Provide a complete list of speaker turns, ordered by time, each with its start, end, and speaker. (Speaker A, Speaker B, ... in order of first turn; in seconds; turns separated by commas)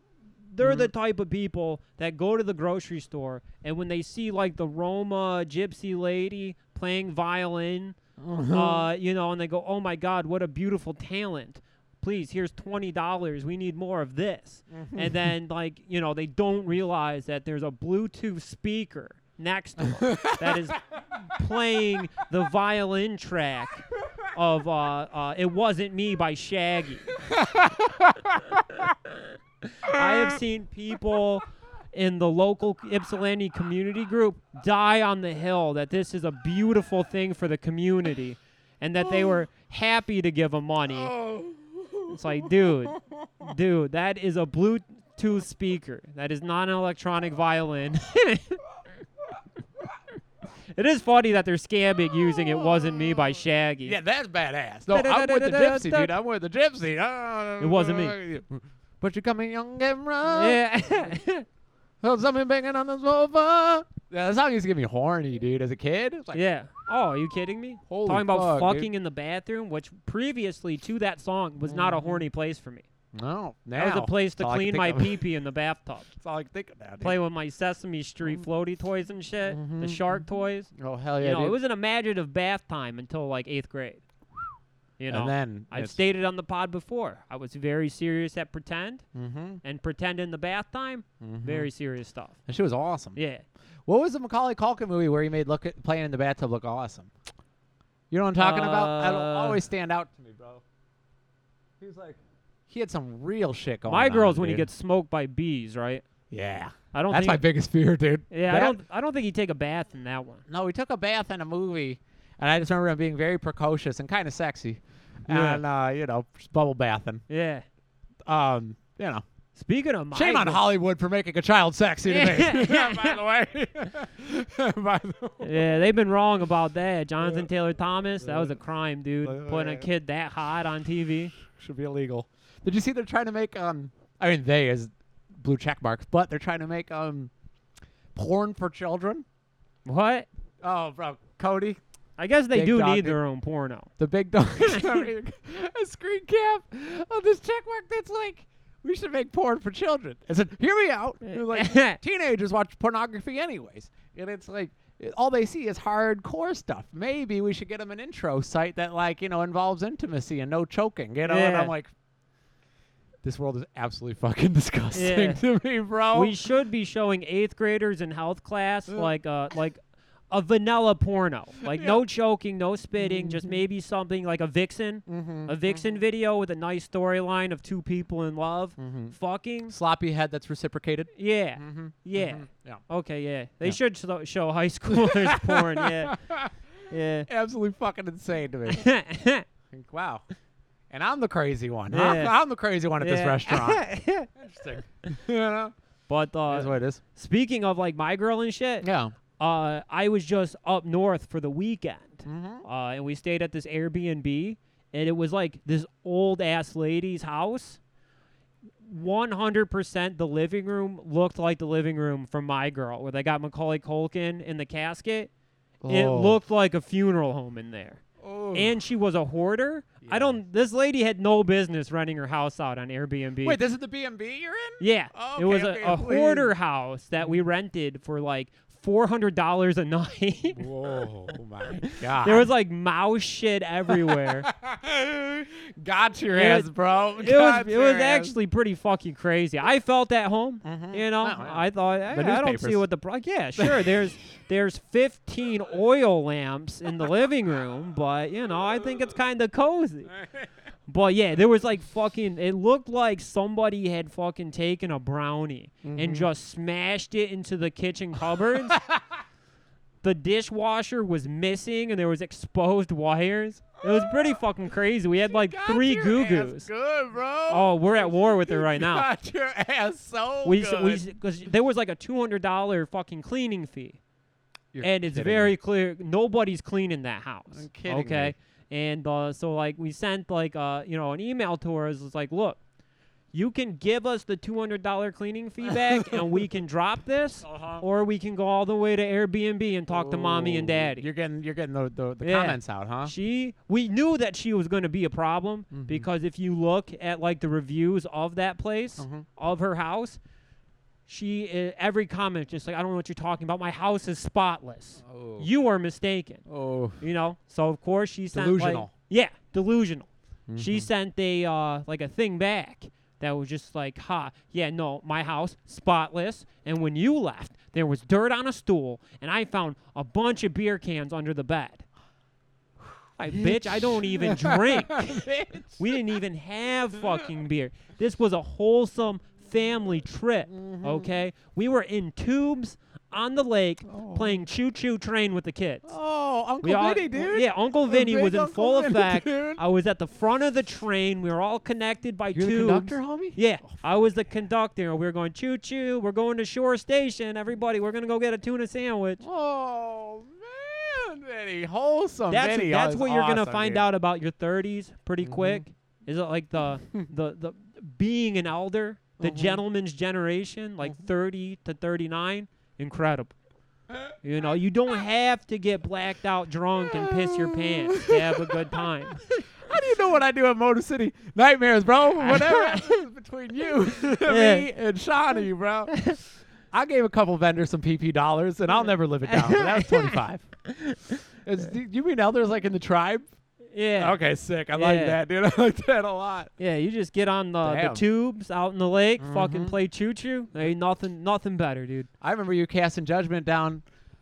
Speaker A: 0.5-8.0, Speaker B: 0.6-0.9, Speaker B: 8.2-8.9, Speaker A: 8.5-27.2, Speaker B: 14.7-15.3, Speaker B: 19.9-20.7, Speaker B: 27.3-28.9, Speaker A: 29.8-41.2, Speaker B: 29.9-30.3, Speaker B: 39.0-39.4, Speaker B: 40.9-43.5, Speaker A: 42.1-48.6, Speaker A: 50.7-54.0, Speaker B: 52.3-53.2, Speaker B: 53.8-60.6, Speaker A: 54.9-56.2, Speaker A: 57.6-58.2, Speaker A: 60.3-61.5, Speaker B: 62.0-66.4, Speaker A: 66.3-72.8, Speaker B: 67.9-68.9, Speaker B: 71.7-72.2, Speaker B: 73.1-75.2, Speaker A: 73.8-76.1, Speaker B: 76.1-77.2, Speaker A: 77.0-84.0, Speaker B: 79.4-80.2, Speaker B: 80.7-81.6, Speaker A: 85.0-89.0, Speaker B: 85.1-86.0, Speaker B: 89.1-89.6, Speaker A: 89.6-92.4, Speaker B: 91.2-91.7, Speaker B: 92.5-93.2, Speaker A: 93.2-93.4, Speaker B: 93.9-97.1, Speaker B: 98.1-100.6, Speaker A: 98.4-99.6, Speaker B: 101.8-104.7, Speaker A: 103.9-106.0, Speaker B: 106.3-108.8, Speaker A: 106.9-107.4, Speaker A: 108.3-110.4, Speaker B: 110.5-117.2, Speaker A: 115.3-115.6, Speaker A: 117.3-117.7, Speaker B: 118.3-119.2, Speaker A: 119.6-120.6, Speaker B: 120.1-125.7, Speaker A: 122.1-123.2, Speaker A: 125.4-131.3, Speaker B: 127.2-127.5, Speaker B: 128.2-128.6, Speaker B: 129.2-129.9, Speaker B: 131.4-137.3, Speaker B: 138.1-139.3, Speaker A: 139.8-140.3, Speaker B: 140.6-141.8, Speaker A: 142.2-143.9, Speaker B: 142.5-143.2, Speaker B: 144.0-161.9, Speaker A: 144.7-145.0, Speaker A: 151.2-152.0, Speaker A: 161.3-161.7, Speaker B: 163.2-166.3, Speaker A: 164.9-165.4, Speaker A: 166.1-179.8, Speaker B: 171.7-172.0, Speaker B: 173.0-173.6, Speaker B: 175.1-176.0, Speaker B: 178.8-179.2, Speaker B: 179.7-182.8, Speaker A: 181.2-186.2, Speaker B: 184.9-186.5, Speaker A: 186.9-187.3, Speaker B: 187.3-188.9, Speaker A: 188.7-189.5, Speaker B: 189.7-190.2, Speaker B: 190.9-195.7, Speaker A: 191.9-192.3, Speaker A: 193.0-194.3, Speaker A: 196.1-198.9, Speaker B: 196.5-197.0, Speaker B: 198.8-199.1, Speaker A: 199.4-207.8, Speaker B: 202.3-202.7, Speaker A: 208.8-215.3, Speaker B: 215.8-216.4, Speaker A: 215.9-223.6, Speaker B: 218.2-218.8, Speaker B: 220.0-220.4, Speaker B: 223.4-226.5, Speaker A: 224.8-230.7, Speaker B: 230.6-232.5, Speaker A: 231.7-234.5, Speaker B: 233.9-238.3, Speaker A: 236.3-250.2, Speaker B: 240.6-242.8, Speaker B: 243.6-244.0, Speaker B: 250.1-250.5, Speaker A: 250.9-258.8, Speaker B: 255.8-256.3, Speaker B: 258.7-259.0, Speaker A: 260.0-266.7, Speaker B: 263.8-264.4, Speaker B: 265.3-271.0, Speaker A: 267.5-269.1, Speaker A: 270.4-274.0, Speaker B: 274.7-275.5, Speaker A: 274.8-282.6, Speaker B: 277.5-278.4, Speaker A: 283.3-291.1, Speaker B: 285.7-286.4, Speaker B: 287.4-287.9, Speaker B: 289.9-293.1, Speaker A: 292.2-300.2, Speaker B: 295.7-296.1, Speaker B: 299.0-299.3, Speaker A: 301.1-306.4, Speaker B: 305.0-305.5, Speaker B: 306.5-307.0, Speaker A: 307.0-321.9, Speaker B: 308.3-308.9, Speaker B: 310.5-310.9, Speaker A: 323.2-325.3, Speaker B: 323.3-326.2, Speaker A: 325.8-335.9, Speaker B: 327.0-327.2, Speaker B: 330.5-331.1, Speaker B: 333.9-334.4, Speaker B: 335.9-339.6, Speaker A: 336.6-349.2, Speaker B: 342.3-343.8, Speaker B: 349.2-353.8, Speaker A: 352.3-363.3, Speaker B: 355.2-355.6, Speaker B: 359.2-359.6, Speaker A: 364.2-369.4, Speaker B: 366.9-368.8, Speaker B: 369.6-376.2, Speaker A: 372.2-373.0, Speaker A: 374.2-374.7, Speaker B: 376.7-383.3, Speaker A: 379.3-380.2, Speaker A: 383.7-384.2, Speaker B: 384.0-386.5, Speaker A: 384.7-385.2, Speaker A: 386.6-392.1, Speaker B: 387.6-388.0, Speaker B: 389.2-389.8, Speaker B: 392.2-393.8